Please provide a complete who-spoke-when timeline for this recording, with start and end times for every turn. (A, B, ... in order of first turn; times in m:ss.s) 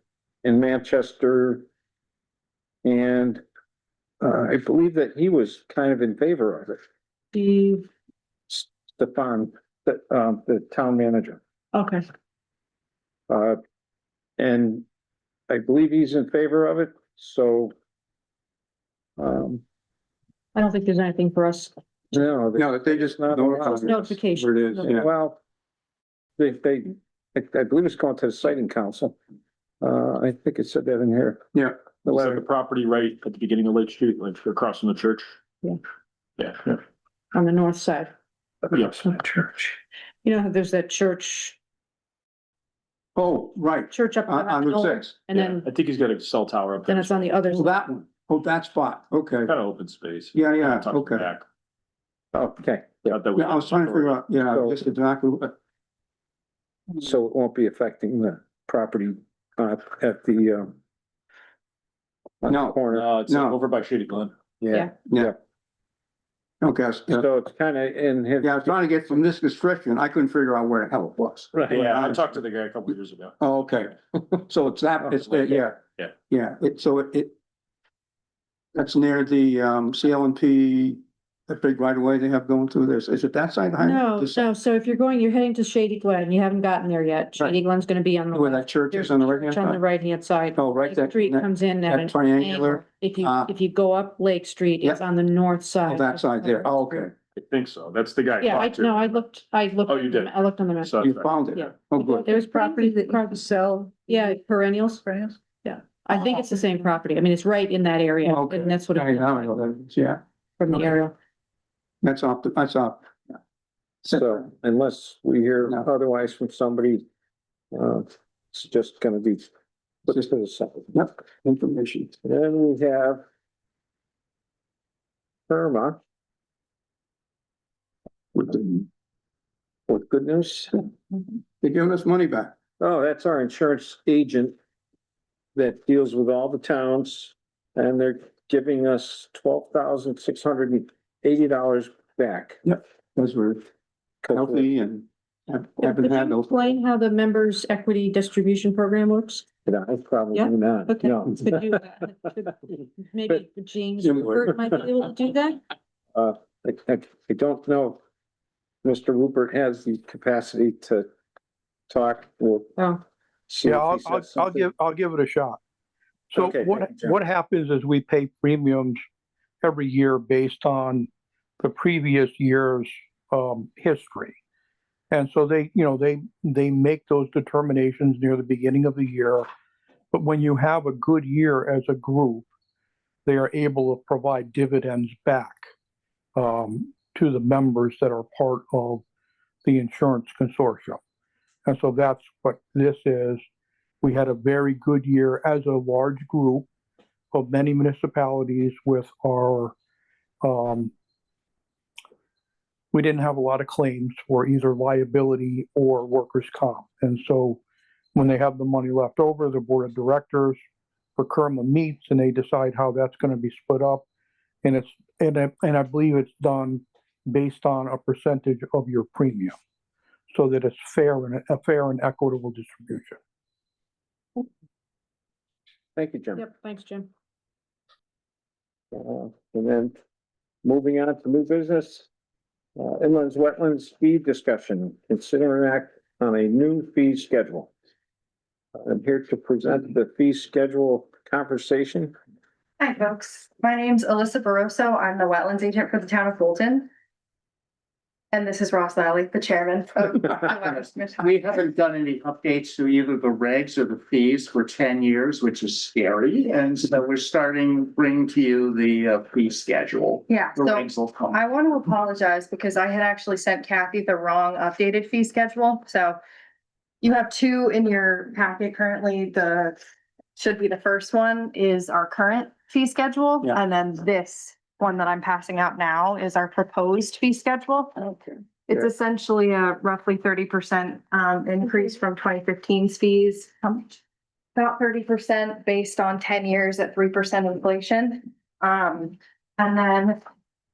0:00.4-0:01.7 A
0:02.8-0:03.4 A
0:04.2-0:06.8 A
0:07.3-0:07.9 B
0:08.5-0:11.4 A
0:11.7-0:12.0 B
0:13.3-0:13.6 A
0:14.4-0:14.8 A
0:15.5-0:17.7 A
0:19.2-0:19.6 A
0:20.6-0:21.7 B
0:22.1-0:24.0 A
0:22.6-0:25.1 C
0:23.6-0:24.9 B
0:24.9-0:25.4 A
0:26.4-0:29.2 A
0:29.8-0:31.4 A
0:32.0-0:32.4 A
0:32.1-0:35.4 D
0:36.4-0:36.8 D
0:37.3-0:38.1 B
0:38.7-0:39.1 D
0:38.9-0:39.7 B
0:40.2-0:41.6 B
0:43.2-0:45.1 C
0:43.9-0:45.7 B
0:45.3-0:47.4 D
0:46.9-0:47.8 B
0:47.5-0:49.6 C
0:49.4-0:51.4 D
0:50.3-0:51.3 C
0:52.3-0:53.2 A
0:53.0-0:54.2 D
0:53.4-0:55.5 C
0:54.5-0:54.8 A
0:57.0-1:00.7 A
1:02.4-1:03.1 A
1:02.5-1:03.6 C
1:02.9-1:04.3 D
1:04.6-1:05.3 C
1:06.6-1:07.3 C
1:07.1-1:09.2 A
1:08.4-1:12.2 C
1:11.6-1:13.4 D
1:13.4-1:17.4 C
1:15.2-1:16.1 D
1:18.7-1:24.5 C
1:23.8-1:37.1 B
1:28.3-1:29.8 C
1:30.6-1:33.5 C
1:35.9-1:37.1 C
1:37.4-1:39.0 D
1:38.4-1:49.7 B
1:39.9-1:41.4 D
1:41.0-1:42.3 C
1:48.2-1:50.2 C
1:50.6-1:51.1 B
1:52.0-1:53.1 C
1:54.0-1:54.4 C
1:54.1-1:57.0 A
1:57.7-1:59.5 A
2:00.1-2:00.9 A
2:00.9-2:02.2 C
2:02.2-2:03.2 A
2:05.5-2:06.0 A
2:08.4-2:08.9 C
2:09.9-2:10.8 A
2:11.6-2:12.6 C
2:12.8-2:14.6 A
2:15.6-2:22.6 A
2:22.6-2:23.7 C
2:24.2-2:24.7 A
2:24.3-2:26.6 C
2:25.8-2:29.5 B
2:29.7-2:31.7 A
2:30.3-2:35.6 B
2:34.0-2:34.5 C
2:36.2-2:38.0 A
2:38.8-2:41.1 A
2:41.9-2:42.8 A
2:43.5-2:44.7 A
2:43.6-2:45.6 E
2:46.3-2:49.0 E
2:46.3-2:47.2 A
2:49.6-2:51.1 E
2:51.6-2:54.4 E
2:55.1-2:59.5 E
3:00.1-3:02.5 E
3:03.3-3:05.6 E
3:06.4-3:09.0 E
3:09.6-3:11.0 E
3:11.7-3:13.4 E
3:14.0-3:16.7 E
3:17.3-3:19.7 E
3:20.4-3:20.9 E
3:22.9-3:27.6 E
3:28.2-3:30.6 E
3:31.2-3:34.1 E
3:34.6-3:39.5 E
3:40.3-3:43.2 E
3:46.0-3:46.4 A
3:46.4-3:47.1 B
3:48.9-3:50.0 A
3:50.6-3:52.1 A
3:52.8-3:57.7 A
3:58.8-4:02.1 A
4:02.8-4:06.9 F
4:08.3-4:11.4 F
4:10.7-4:21.4 G
4:20.3-4:26.2 F
4:27.0-4:29.8 F
4:30.4-4:44.0 F
4:44.6-4:50.2 F